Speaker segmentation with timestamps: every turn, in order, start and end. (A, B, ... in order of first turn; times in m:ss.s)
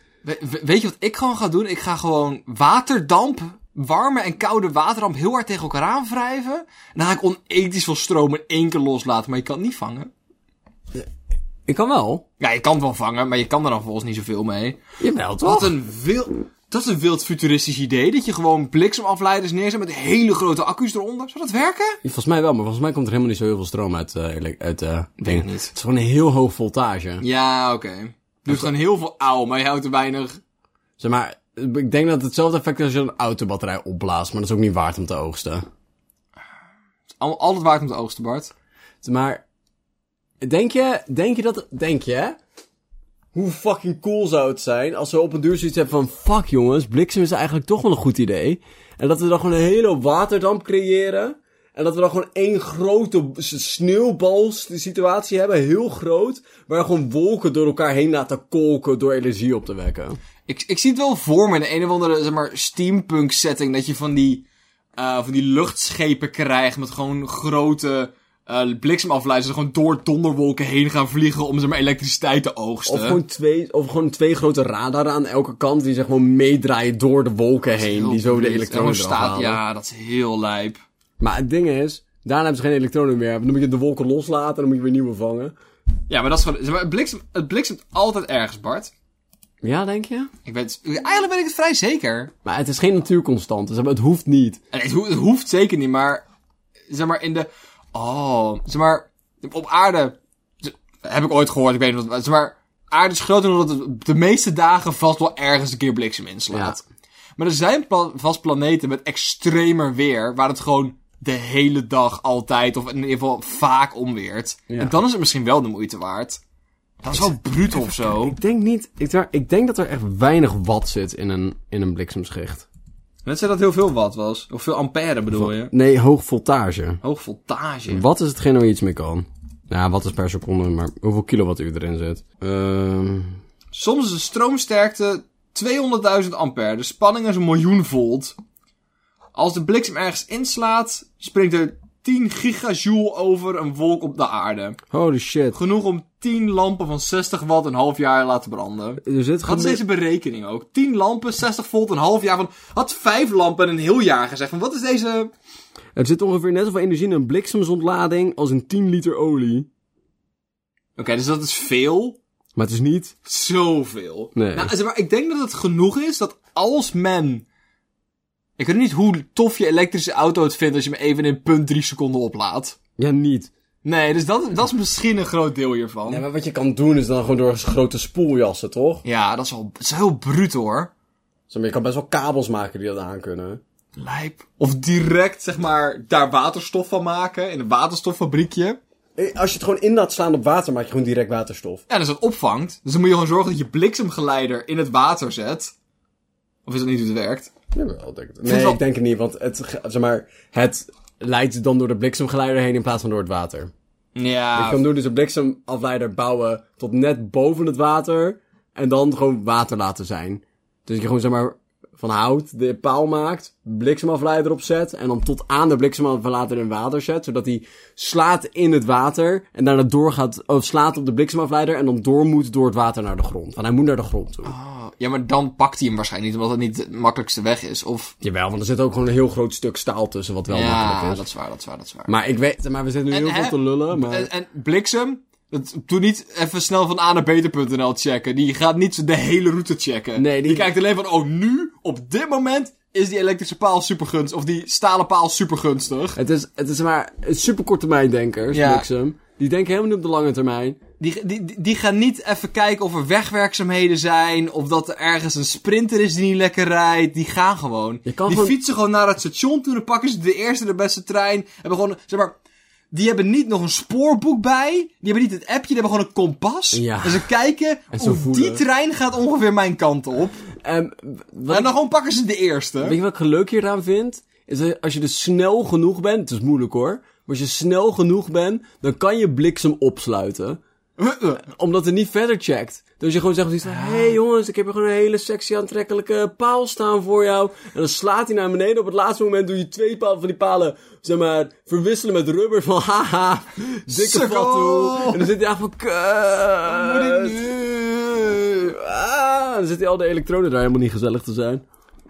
0:00.2-0:10.1 A
0:11.7-0:12.2 B
0:12.4-0:14.8 A
0:15.0-0:15.7 B
0:15.4-0:22.0 A
0:22.0-0:27.2 B
0:25.2-0:25.7 A
0:27.2-0:30.4 A
0:31.0-0:35.6 B
0:37.2-0:38.5 A
0:39.0-0:39.4 B
0:40.4-0:42.4 B
0:43.3-1:00.2 B
1:00.5-1:04.4 A
1:05.0-1:13.2 A
1:12.9-1:19.6 B
1:17.7-1:20.8 A
1:21.2-1:25.6 B
1:26.1-1:28.9 A
1:29.6-1:30.3 B
1:30.5-1:32.3 A
1:32.4-1:34.6 B
1:34.7-1:36.2 A
1:36.9-1:46.8 A
1:46.5-1:46.8 B
1:47.4-1:56.4 A
1:54.7-1:55.0 B
1:57.0-1:58.4 A
1:58.0-2:02.7 B
2:03.3-2:05.7 A
2:05.3-2:07.0 B
2:07.0-2:08.0 A
2:07.9-2:13.4 B
2:13.7-2:18.4 A
2:19.4-2:24.8 A
2:24.9-2:25.6 B
2:25.5-2:35.3 A
2:29.0-2:29.8 B
2:36.0-2:39.7 B
2:41.0-2:42.2 A
2:42.6-2:43.1 B
2:43.2-2:47.4 A
2:44.4-2:44.7 B
2:48.6-2:52.8 A
2:53.0-2:53.5 B
2:53.8-2:56.2 A
2:56.1-2:59.0 B
2:59.0-3:00.9 A
3:01.5-3:03.6 B
3:04.0-3:08.8 A
3:09.2-3:11.8 B
3:11.9-3:15.7 A
3:16.7-3:17.5 A
3:17.7-3:23.7 B
3:18.4-3:18.8 A
3:24.2-3:24.8 A
3:24.6-3:44.5 B
3:44.4-3:48.2 A
3:48.2-3:51.2 B
3:50.5-3:52.1 A
3:52.1-3:54.3 B
3:53.1-4:06.2 A
4:00.2-4:00.7 B
4:06.2-4:10.8 B
4:08.5-4:08.8 A
4:11.0-4:22.4 A
4:18.1-4:18.6 B
4:22.9-4:30.4 A
4:26.7-4:27.3 B
4:27.9-4:28.6 B
4:30.6-4:31.8 B
4:31.5-4:33.0 A
4:32.8-4:40.6 B
4:41.0-4:41.4 A
4:41.4-4:57.5 B
4:43.7-4:44.1 A
4:53.9-4:55.3 A
4:56.6-4:58.4 A
4:58.4-5:01.6 B